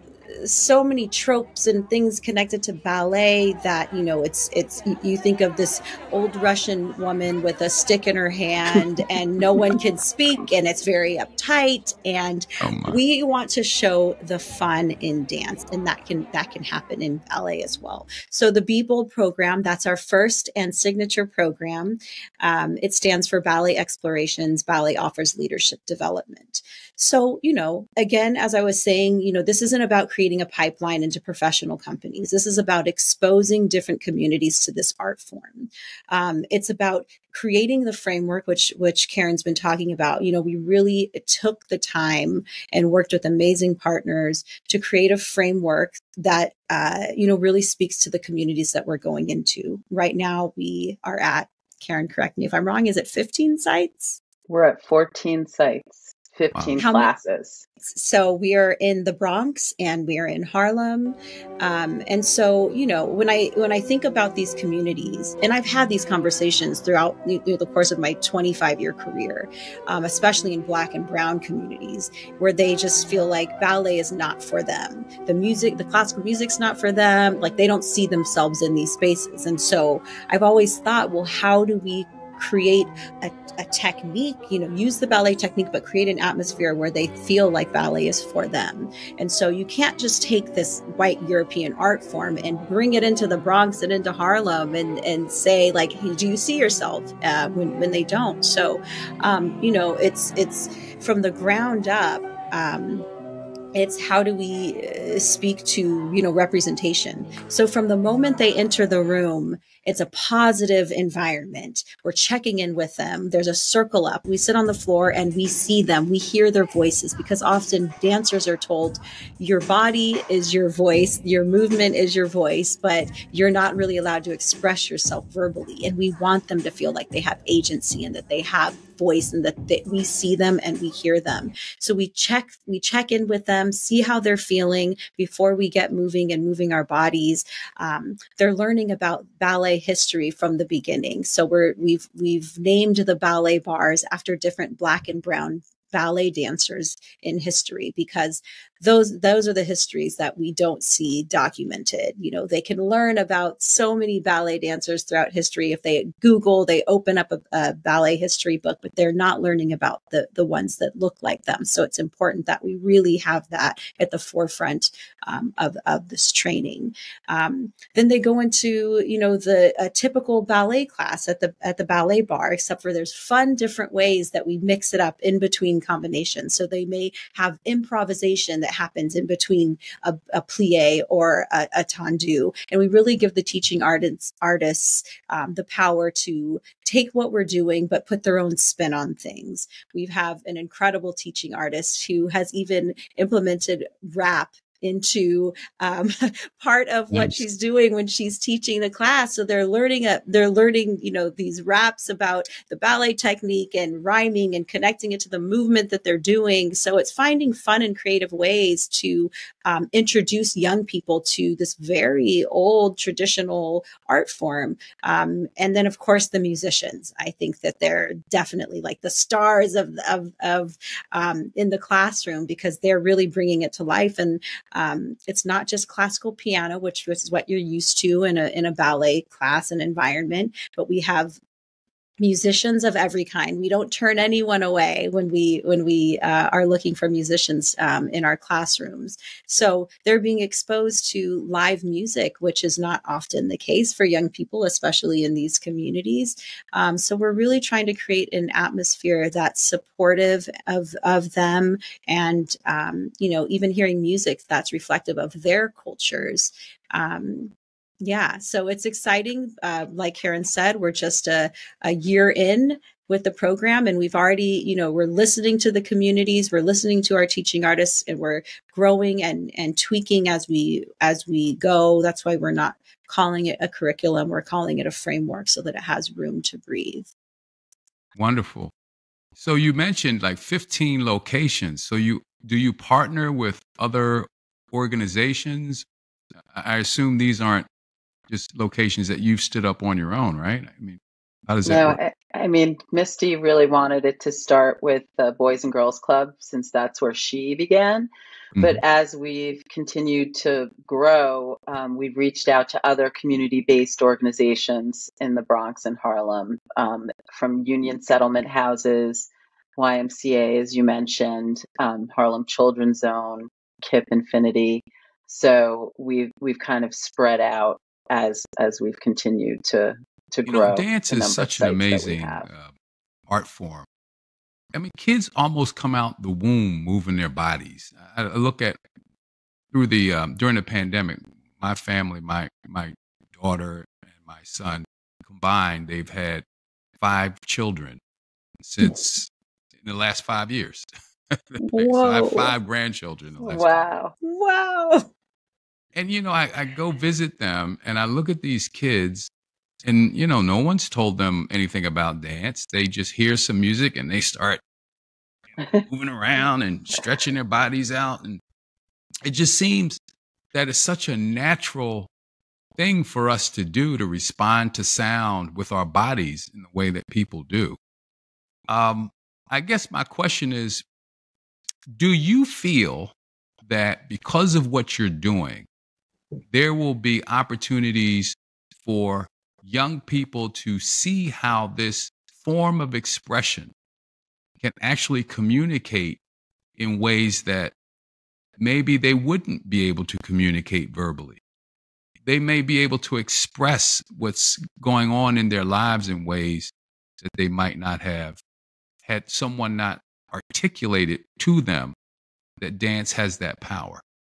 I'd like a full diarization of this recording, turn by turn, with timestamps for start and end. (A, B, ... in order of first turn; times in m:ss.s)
0:00.4-0:54.2 A
0:12.6-0:13.0 B
0:54.5-0:57.6 C
0:56.5-0:56.8 B
0:56.8-0:57.1 A
0:57.8-1:43.0 A
1:43.7-3:51.4 A
3:17.1-3:17.4 B
3:52.2-4:37.1 A
4:38.1-4:38.7 B
4:39.4-4:45.8 B
4:46.5-4:47.7 B
4:48.3-4:52.0 B
4:51.6-5:22.4 C
4:58.6-4:58.8 B
5:20.4-5:22.7 B
5:23.3-5:23.9 B
5:24.7-5:28.8 B
5:29.7-5:36.4 B
5:37.0-5:38.0 B
5:38.6-5:39.3 B
5:39.8-5:43.9 B
5:41.6-5:42.5 A
5:43.4-5:44.1 C
5:44.2-5:45.1 A
5:45.9-5:49.3 B
5:49.8-5:54.6 B
5:55.6-5:55.8 C
5:55.9-5:58.4 B
5:59.2-6:00.0 B
6:00.5-6:02.1 B
6:02.8-6:07.8 B
6:08.7-6:10.8 B
6:11.9-6:15.6 B
6:16.5-6:23.7 B
6:24.6-6:26.2 B
6:26.8-6:27.7 B
6:28.6-6:31.4 B
6:32.2-6:38.4 B
6:39.0-6:41.9 B
6:42.6-6:44.0 B